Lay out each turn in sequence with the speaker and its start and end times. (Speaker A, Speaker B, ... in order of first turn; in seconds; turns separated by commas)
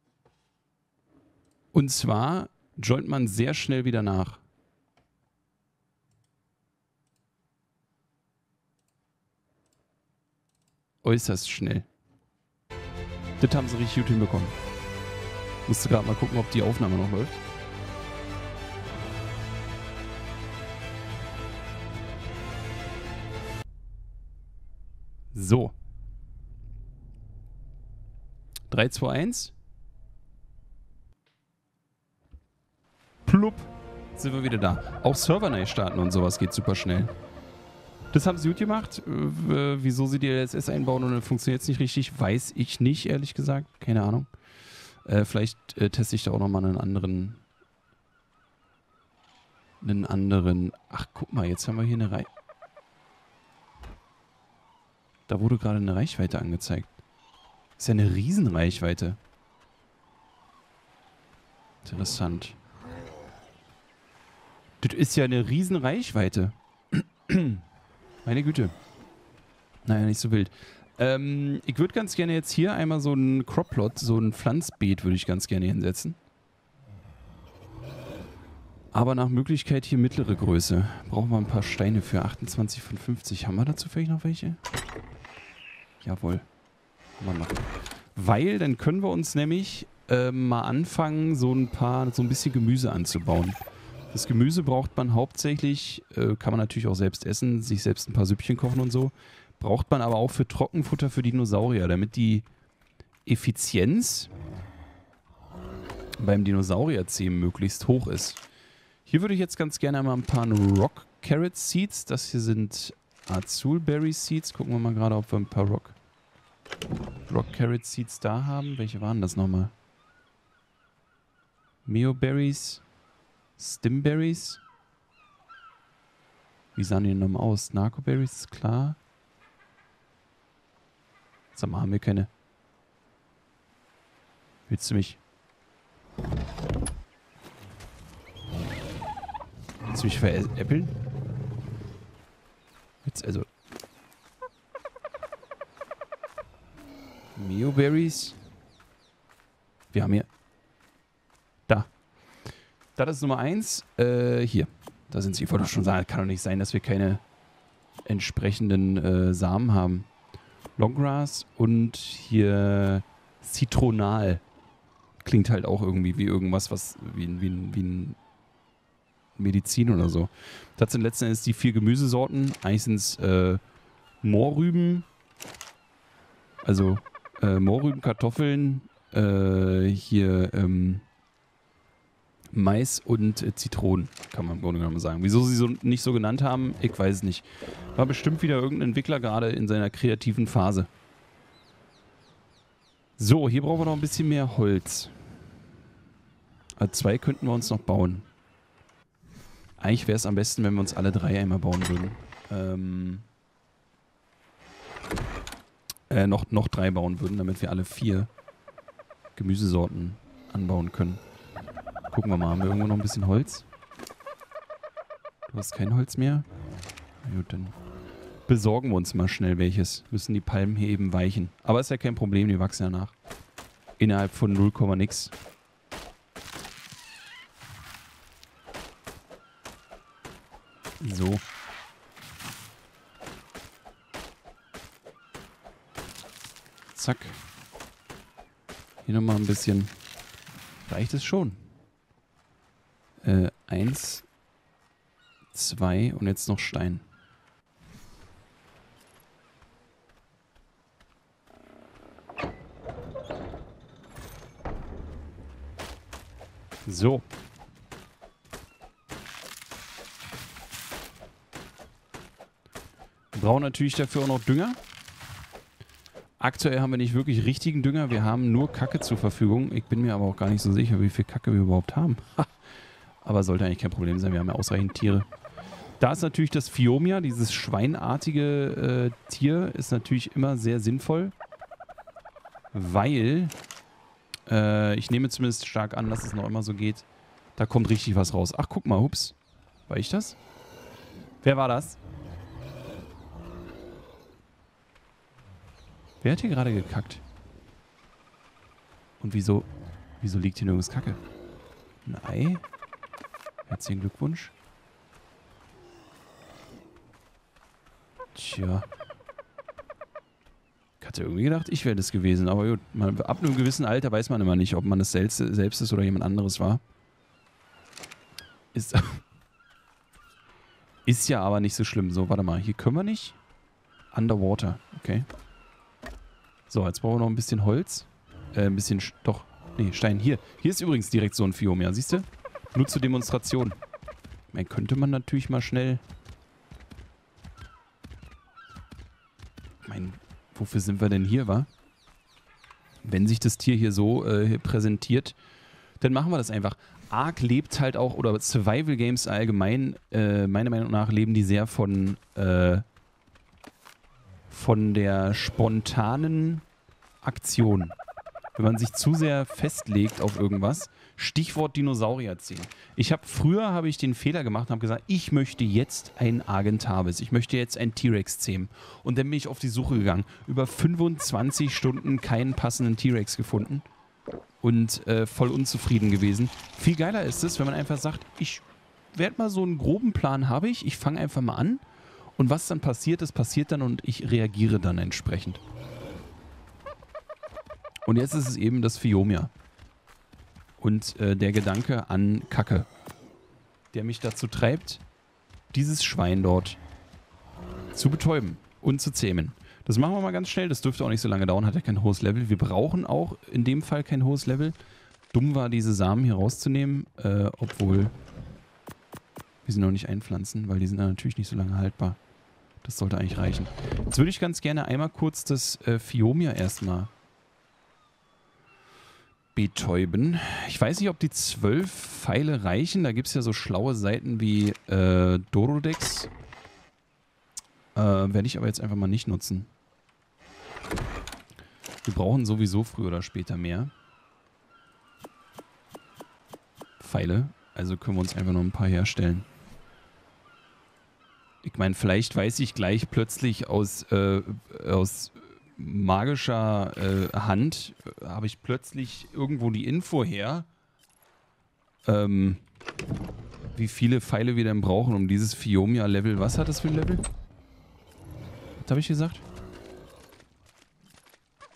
Speaker A: 1.7-4.4, Speaker A: 11.0-11.9, Speaker A: 13.4-14.5, Speaker A: 15.7-17.4, Speaker A: 25.3-25.7, Speaker A: 28.7-29.5, Speaker A: 33.2-37.1, Speaker A: 38.1-44.3, Speaker A: 45.0-47.4, Speaker A: 49.8-52.3, Speaker A: 55.3-56.9, Speaker A: 57.8-59.2, Speaker A: 61.8-62.6, Speaker A: 64.8-67.6, Speaker A: 68.2-68.7, Speaker A: 69.8-76.2, Speaker A: 78.9-84.6, Speaker A: 86.0-86.5, Speaker A: 87.2-93.6, Speaker A: 94.1-102.5, Speaker A: 103.3-104.3, Speaker A: 106.2-108.4, Speaker A: 109.1-116.0, Speaker A: 117.3-119.7, Speaker A: 121.9-122.8, Speaker A: 123.6-124.6, Speaker A: 126.8-129.0, Speaker A: 131.5-132.3, Speaker A: 134.7-135.2, Speaker A: 139.9-140.9, Speaker A: 143.0-143.5, Speaker A: 147.4-148.4, Speaker A: 149.9-150.3, Speaker A: 153.0-157.2, Speaker A: 158.1-160.1, Speaker A: 160.8-164.4, Speaker A: 165.2-168.2, Speaker A: 169.4-173.6, Speaker A: 174.2-175.1, Speaker A: 176.6-181.1, Speaker A: 182.5-190.9, Speaker A: 193.2-195.2, Speaker A: 196.8-198.3, Speaker A: 199.8-203.3, Speaker A: 206.1-208.3, Speaker A: 209.4-211.2, Speaker A: 212.1-213.7, Speaker A: 215.5-216.5, Speaker A: 217.2-217.8, Speaker A: 218.5-223.2, Speaker A: 224.0-225.3, Speaker A: 231.0-231.4, Speaker A: 236.9-237.4, Speaker A: 239.1-239.9, Speaker A: 240.9-241.6, Speaker A: 243.2-244.3, Speaker A: 245.5-247.1, Speaker A: 256.9-257.2, Speaker A: 263.3-264.8, Speaker A: 266.4-272.5, Speaker A: 273.2-275.3, Speaker A: 276.0-281.3, Speaker A: 282.7-283.6, Speaker A: 284.5-289.4, Speaker A: 289.9-290.4, Speaker A: 291.4-292.0, Speaker A: 296.2-297.2, Speaker A: 299.2-299.7, Speaker A: 300.2-301.2, Speaker A: 302.1-302.6, Speaker A: 303.7-304.5, Speaker A: 308.4-308.9, Speaker A: 311.0-316.8, Speaker A: 318.7-319.2, Speaker A: 321.1-323.4, Speaker A: 324.1-325.3, Speaker A: 326.7-333.8, Speaker A: 334.5-336.0, Speaker A: 339.8-341.7, Speaker A: 343.0-345.4, Speaker A: 346.0-352.9, Speaker A: 354.5-356.6, Speaker A: 357.2-358.0, Speaker A: 358.6-373.9, Speaker A: 374.6-381.8, Speaker A: 382.4-385.6, Speaker A: 388.1-389.5, Speaker A: 390.8-392.9, Speaker A: 393.9-395.0, Speaker A: 395.7-396.8, Speaker A: 397.9-404.8, Speaker A: 405.3-408.1, Speaker A: 409.6-412.2, Speaker A: 412.8-417.1, Speaker A: 419.6-426.3, Speaker A: 427.9-429.7, Speaker A: 432.0-433.9, Speaker A: 437.0-439.5, Speaker A: 441.6-450.7, Speaker A: 452.1-452.6, Speaker A: 453.8-457.2, Speaker A: 458.8-459.4